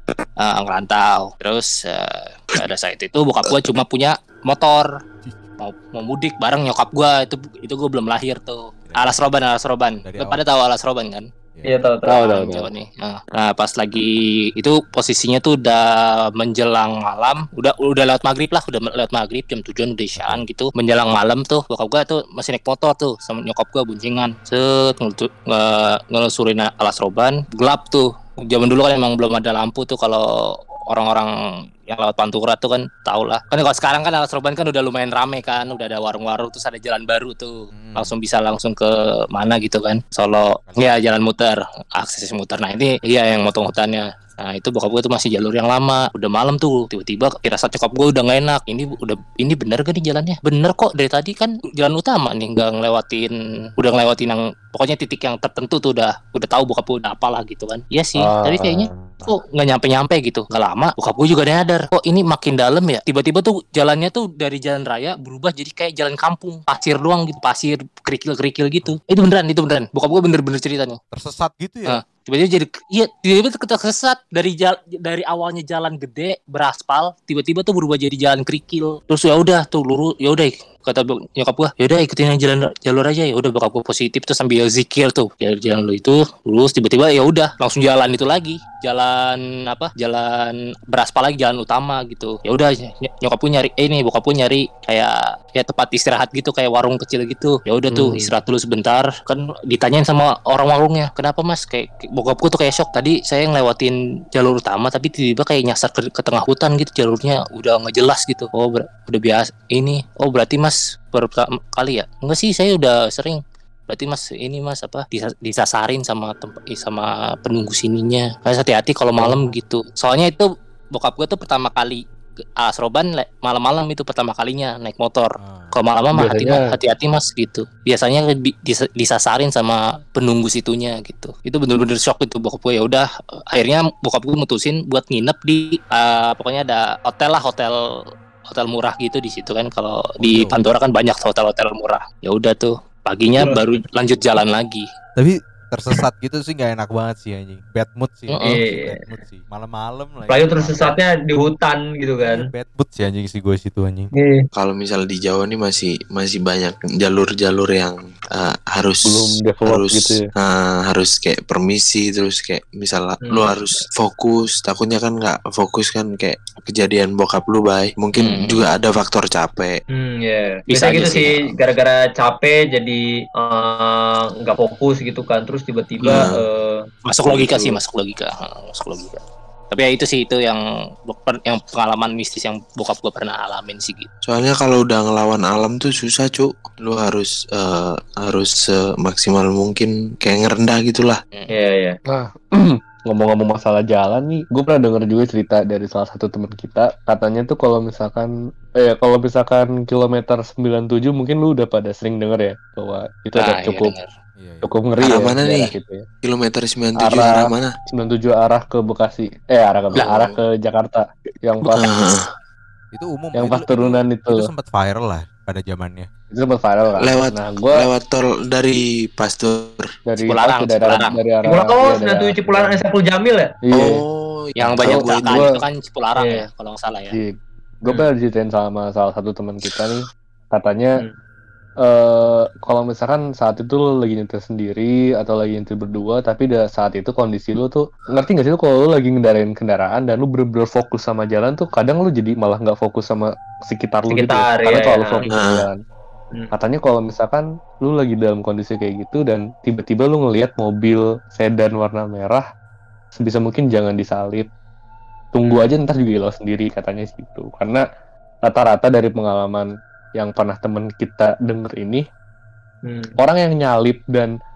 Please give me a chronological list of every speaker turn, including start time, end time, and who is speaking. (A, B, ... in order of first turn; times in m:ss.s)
0:00.4-0:04.9 A
0:05.6-0:11.3 A
0:08.9-0:09.2 B
0:10.0-0:10.4 B
0:11.6-0:12.3 C
0:12.1-0:12.7 D
0:12.2-0:30.3 A
0:20.2-0:20.4 B
0:30.9-0:31.3 A
0:31.9-1:11.0 A
0:37.7-0:38.2 B
0:40.6-0:41.0 B
0:58.2-0:59.2 D
1:11.1-1:12.0 B
1:11.9-2:02.0 A
1:37.9-1:38.3 D
1:59.2-1:59.5 D
2:02.6-2:17.8 A
2:05.4-2:05.8 B
2:06.1-2:06.8 D
2:18.5-2:24.9 A
2:20.2-2:20.6 B
2:25.2-2:31.0 B
2:28.3-2:28.6 A
2:28.4-2:28.9 C
2:30.3-2:32.4 C
2:32.2-2:34.1 B
2:34.2-2:34.5 C
2:34.6-2:49.8 E
2:39.1-2:40.2 D
2:43.3-2:43.6 C
2:48.2-2:48.6 A
2:50.0-2:56.8 C
2:50.7-2:51.4 A
2:56.0-2:56.4 E
2:57.1-3:04.1 A
2:57.3-2:57.8 E
3:04.3-3:11.2 E
3:11.5-3:12.0 C
3:12.1-3:23.9 D
3:23.4-3:24.1 A
3:24.4-3:24.7 B
3:24.6-3:26.1 D
3:25.0-3:27.8 E
3:27.0-3:31.9 D
3:30.0-3:30.4 E
3:30.0-3:30.3 A
3:31.7-3:32.3 E
3:32.9-3:36.1 B
3:33.4-3:34.5 D
3:36.3-3:37.9 D
3:37.0-3:39.9 E
3:40.1-3:42.8 D
3:40.2-3:41.2 A
3:41.4-3:43.5 C
3:43.7-3:45.5 E
3:44.6-3:47.2 A
3:44.8-3:45.5 D
3:46.2-3:46.5 C
3:47.1-3:51.0 D
3:51.8-4:05.7 D
4:04.1-4:05.2 C
4:05.3-4:05.7 E
4:06.5-4:12.4 D
4:13.2-4:14.5 D
4:15.4-4:17.8 D
4:15.4-4:15.8 C
4:18.5-4:22.0 D
4:22.8-4:23.2 C
4:23.2-4:24.3 D